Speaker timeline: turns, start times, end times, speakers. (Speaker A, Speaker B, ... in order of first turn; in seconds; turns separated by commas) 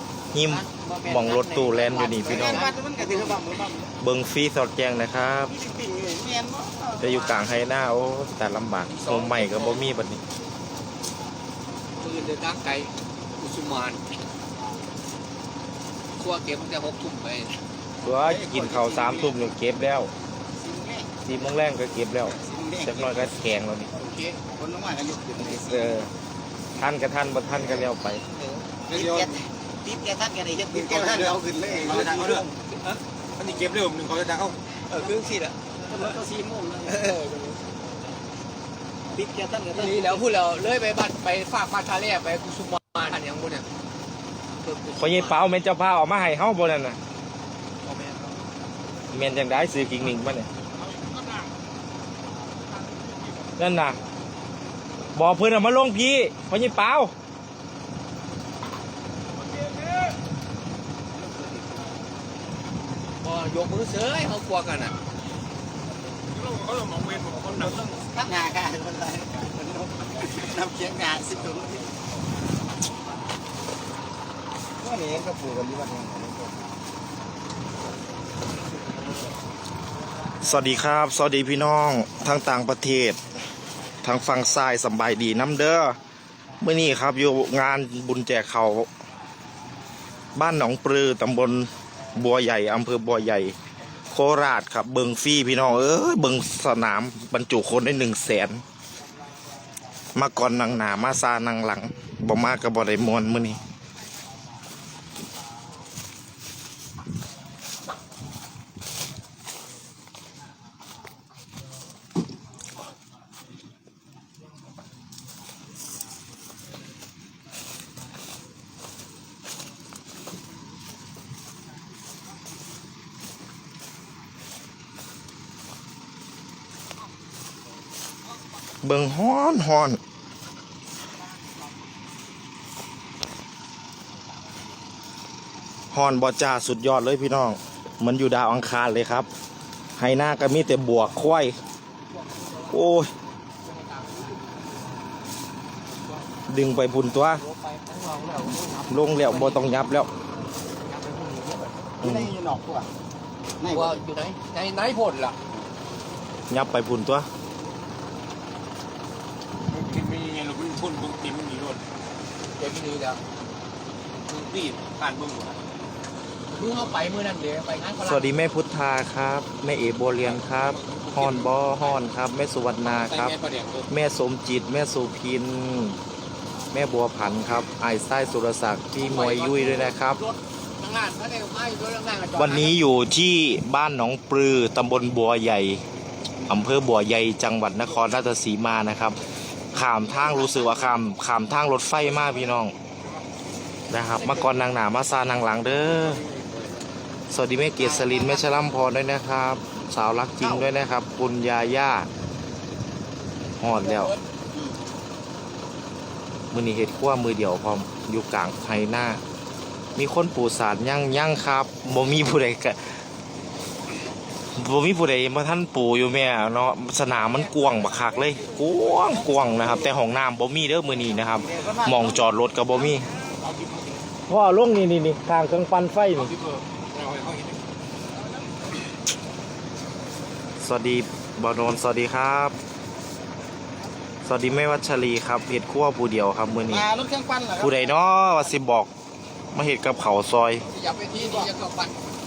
Speaker A: 0.3-2.6, Speaker B: 0.5-3.9, Speaker C: 2.2-3.4, Speaker A: 4.0-5.5, Speaker B: 5.5-7.1, Speaker A: 7.0-10.2, Speaker C: 8.9-9.9, Speaker C: 12.0-14.0, Speaker C: 16.2-17.6, Speaker A: 18.0-20.1, Speaker B: 18.2-19.4, Speaker B: 20.6-21.1, Speaker A: 21.2-23.9, Speaker B: 22.3-23.3, Speaker C: 23.9-24.4, Speaker B: 24.5-26.0, Speaker A: 25.4-26.1, Speaker A: 26.7-28.2, Speaker B: 27.5-32.5, Speaker D: 28.9-29.4, Speaker D: 30.7-32.4, Speaker C: 32.7-33.0, Speaker D: 33.4-34.6, Speaker C: 34.9-35.6, Speaker B: 35.9-37.0, Speaker C: 36.8-37.6, Speaker B: 39.1-40.2, Speaker C: 39.7-43.7, Speaker C: 44.6-45.4, Speaker A: 45.0-47.0, Speaker A: 49.1-50.5, Speaker A: 53.6-54.0, Speaker A: 55.1-57.1, Speaker B: 61.2-61.7, Speaker C: 63.2-64.9, Speaker D: 66.4-67.5, Speaker B: 67.5-71.8, Speaker B: 74.8-76.5, Speaker A: 80.4-83.2, Speaker A: 84.0-86.0, Speaker A: 86.6-88.9, Speaker A: 90.3-93.5, Speaker A: 94.1-98.6, Speaker A: 100.1-103.6, Speaker A: 128.8-130.0, Speaker A: 135.9-139.3, Speaker A: 140.0-141.5, Speaker C: 142.1-142.7, Speaker A: 142.7-143.1, Speaker C: 143.6-144.6, Speaker A: 146.5-147.4, Speaker C: 147.3-149.6, Speaker A: 148.9-150.1, Speaker C: 150.8-151.8, Speaker B: 152.0-152.9, Speaker A: 152.0-152.3, Speaker B: 153.6-154.0, Speaker C: 153.7-155.3, Speaker A: 156.5-157.3, Speaker D: 159.7-161.8, Speaker C: 162.6-163.2, Speaker C: 164.3-165.6, Speaker C: 166.5-168.3, Speaker A: 168.0-173.3, Speaker C: 170.9-171.4, Speaker C: 172.8-173.9, Speaker A: 173.9-176.0, Speaker A: 176.7-180.2, Speaker C: 179.0-182.8, Speaker A: 182.4-185.8, Speaker A: 186.5-189.2, Speaker A: 189.7-192.7, Speaker A: 193.9-196.2, Speaker C: 194.1-194.5, Speaker A: 197.3-202.1, Speaker B: 197.8-198.5, Speaker B: 200.4-200.7, Speaker A: 203.6-204.1, Speaker C: 203.9-204.1, Speaker A: 206.5-209.2, Speaker A: 209.9-213.0, Speaker A: 214.6-223.0, Speaker C: 217.4-218.6, Speaker B: 221.3-222.2, Speaker D: 223.4-223.7, Speaker A: 224.3-226.4, Speaker D: 226.4-227.5, Speaker A: 230.6-232.6, Speaker A: 234.2-236.9, Speaker B: 236.7-238.0, Speaker A: 237.6-238.9, Speaker A: 239.5-240.6, Speaker C: 240.6-241.9